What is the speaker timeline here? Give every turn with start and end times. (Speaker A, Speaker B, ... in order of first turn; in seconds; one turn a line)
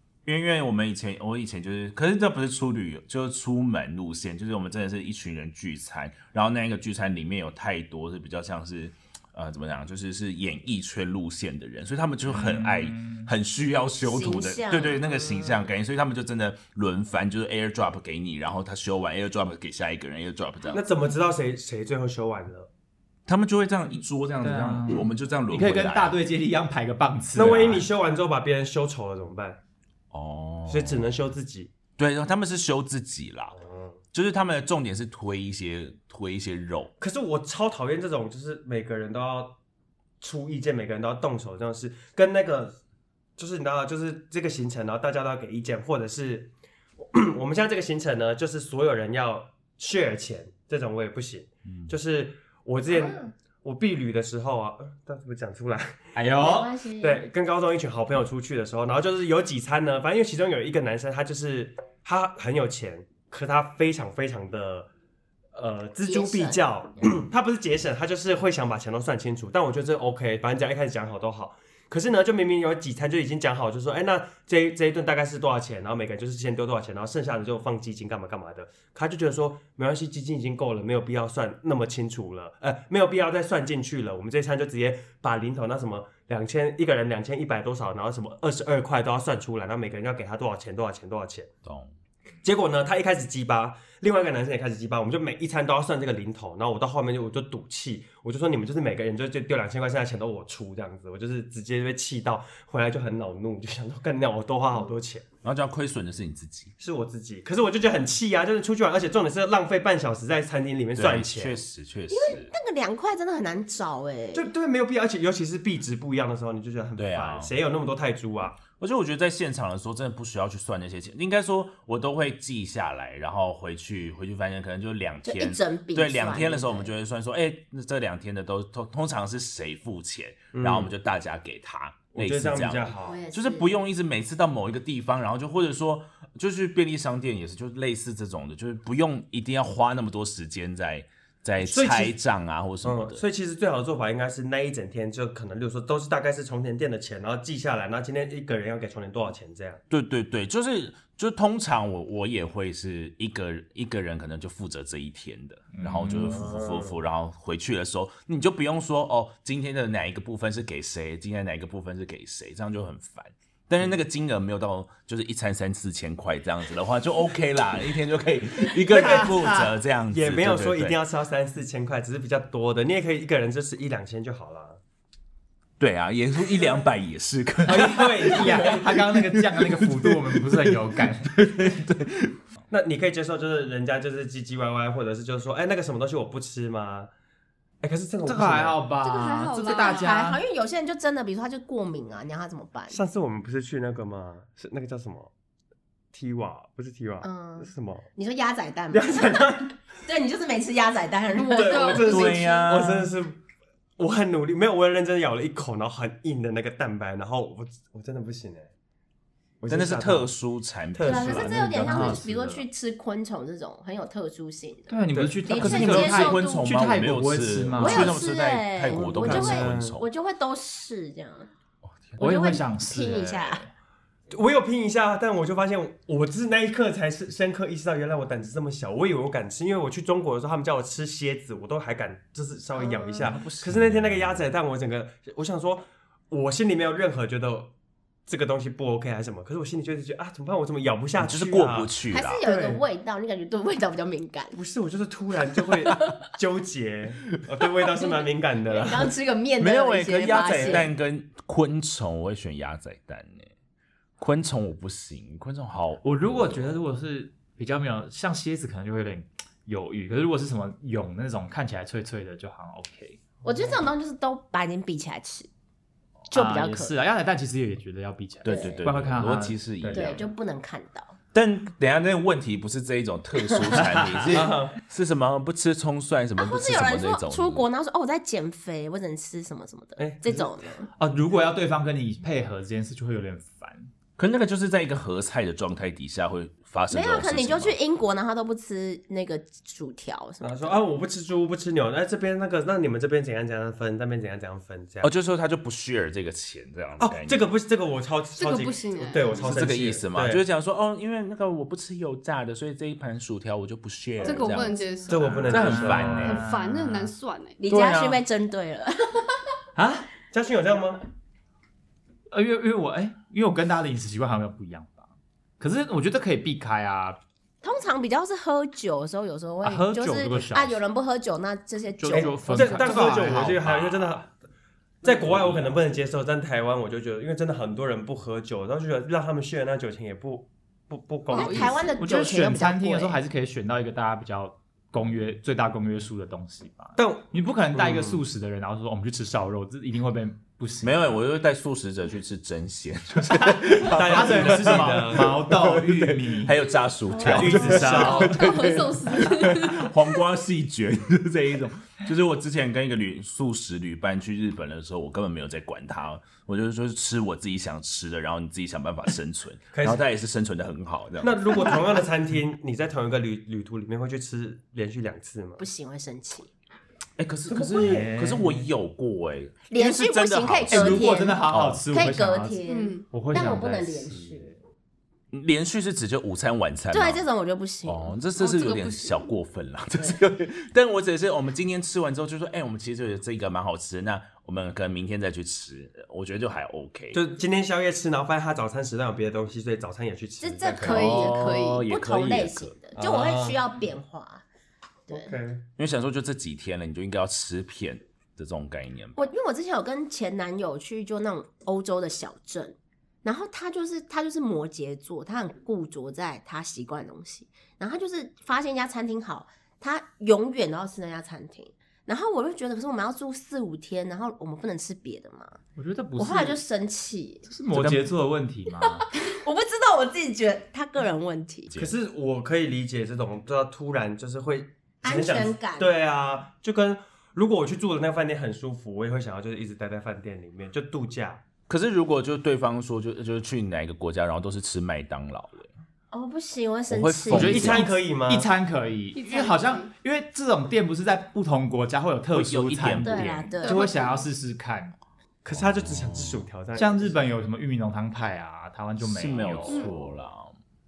Speaker A: 0.2-20.8
Speaker B: 12.3-13.3
Speaker C: 14.0-15.7
Speaker D: 20.7-22.7
Speaker A: 23.3-26.1
Speaker B: 24.4-27.9
Speaker D: 27.4-29.6
Speaker A: 30.1-31.1
Speaker D: 30.7-31.7
Speaker A: 32.0-33.6
Speaker D: 33.6-34.0
Speaker A: 34.1-36.9
Speaker D: 37.0-39.6
Speaker D: 40.2-42.8
Speaker D: 43.4-56.0
Speaker C: 52.9-53.3
Speaker B: 56.1-56.7
Speaker C: 56.4-57.2
Speaker D: 57.0-64.9
Speaker D: 65.5-91.5
Speaker C: 66.0-67.1
Speaker A: 91.6-91.9
Speaker D: 92.4-105.2
Speaker A: 105.4-106.7
Speaker D: 106.8-111.6
Speaker A: 111.0-112.5
Speaker C: 112.1-114.5
Speaker D: 114.3-118.6
Speaker A: 117.0-117.5
Speaker A: 118.8-143.2
Speaker C: 125.3-126.9
Speaker D: 130.5-130.9
Speaker D: 132.1-133.2
Speaker C: 133.1-133.7
Speaker D: 141.7-142.1
Speaker D: 142.8-149.8
Speaker A: 149.9-171.0
Speaker B: 155.7-156.4
Speaker D: 156.1-157.0
Speaker D: 168.9-169.5
Speaker B: 168.9-169.7
Speaker D: 170.1-174.8
Speaker A: 175.8-182.4
Speaker D: 177.7-179.0
Speaker B: 177.7-181.5
Speaker D: 182.7-187.1
Speaker D: 187.8-188.8
Speaker B: 188.2-190.4
Speaker E: 189.0-190.1
Speaker C: 189.6-193.0
Speaker D: 192.9-195.3
Speaker D: 196.1-198.1
Speaker C: 197.2-199.4
Speaker D: 198.9-199.8
Speaker C: 200.1-202.7
Speaker E: 201.4-202.3
Speaker D: 201.4-203.4
Speaker A: 202.0-203.1
Speaker D: 204.0-208.7
Speaker D: 209.6-210.4
Speaker A: 209.7-212.6
Speaker D: 210.9-212.2
Speaker C: 211.0-216.8
Speaker B: 211.8-212.2
Speaker B: 214.9-218.2
Speaker D: 215.1-215.4
Speaker A: 215.5-220.1
Speaker C: 217.8-221.5
Speaker D: 218.9-220.0
Speaker B: 222.2-223.7
Speaker C: 222.2-223.6
Speaker D: 224.3-237.7
Speaker C: 232.8-233.3
Speaker A: 233.2-234.4
Speaker D: 238.3-242.8
Speaker A: 241.2-242.4
Speaker C: 242.1-244.6
Speaker D: 244.5-249.1
Speaker C: 245.8-246.2
Speaker C: 247.9-250.9
Speaker A: 249.6-253.5
Speaker A: 254.2-256.6
Speaker B: 256.0-263.4
Speaker C: 263.4-265.5
Speaker B: 266.3-270.2
Speaker C: 266.3-266.9
Speaker A: 268.4-270.3
Speaker C: 268.4-268.8
Speaker C: 269.9-271.1
Speaker A: 271.3-277.6
Speaker B: 273.8-274.6
Speaker D: 274.2-274.8
Speaker C: 276.4-280.9
Speaker D: 280.0-280.8
Speaker B: 281.0-283.9
Speaker A: 284.2-287.8
Speaker C: 286.9-290.8
Speaker D: 290.4-295.1
Speaker A: 295.0-297.4
Speaker D: 297.0-300.4
Speaker E: 298.4-299.4
Speaker A: 299.4-304.8
Speaker E: 304.2-307.6
Speaker C: 304.2-305.2
Speaker D: 305.1-306.3
Speaker B: 305.2-307.1
Speaker A: 305.5-306.4
Speaker C: 307.6-309.4
Speaker A: 307.7-308.2
Speaker B: 309.8-310.1
Speaker D: 310.3-311.0
Speaker B: 312.3-317.2
Speaker C: 317.6-323.0
Speaker B: 319.6-320.8
Speaker B: 322.0-323.7
Speaker D: 322.1-324.3
Speaker A: 323.0-324.2
Speaker D: 325.0-331.9
Speaker A: 325.1-326.1
Speaker E: 331.3-331.9
Speaker C: 331.3-333.2
Speaker B: 332.0-341.0
Speaker D: 336.9-338.2
Speaker A: 340.8-361.8
Speaker B: 343.2-346.6
Speaker D: 343.9-345.4
Speaker E: 347.1-350.2
Speaker B: 347.2-348.6
Speaker D: 347.2-348.4
Speaker D: 359.7-360.1
Speaker D: 361.2-365.6
Speaker C: 365.6-366.5
Speaker A: 367.2-371.9
Speaker D: 367.5-368.1
Speaker B: 367.8-368.7
Speaker C: 369.7-374.5
Speaker B: 370.7-374.6
Speaker E: 372.7-373.1
Speaker A: 375.3-377.3
Speaker C: 376.9-378.1
Speaker A: 377.9-387.2
Speaker E: 378.4-379.3
Speaker D: 387.1-391.3
Speaker C: 390.4-394.4
Speaker E: 390.8-391.9
Speaker B: 390.9-392.7
Speaker A: 392.1-392.6
Speaker D: 392.9-393.6
Speaker C: 395.1-395.3
Speaker D: 395.1-395.6
Speaker A: 395.8-399.3
Speaker C: 399.2-415.6
Speaker B: 415.8-416.6
Speaker C: 416.1-417.5
Speaker B: 417.5-419.1
Speaker A: 417.7-418.0
Speaker C: 418.8-421.8
Speaker D: 421.8-431.4
Speaker C: 425.0-425.9
Speaker A: 431.7-435.7
Speaker C: 436.1-437.7
Speaker A: 436.9-437.9
Speaker B: 437.3-444.9
Speaker D: 437.4-438.5
Speaker E: 439.1-439.9
Speaker A: 442.3-443.5
Speaker C: 443.0-443.9
Speaker E: 443.6-444.0
Speaker D: 445.4-447.3
Speaker A: 445.6-446.4
Speaker B: 446.8-449.9
Speaker A: 449.0-450.6
Speaker E: 449.7-449.9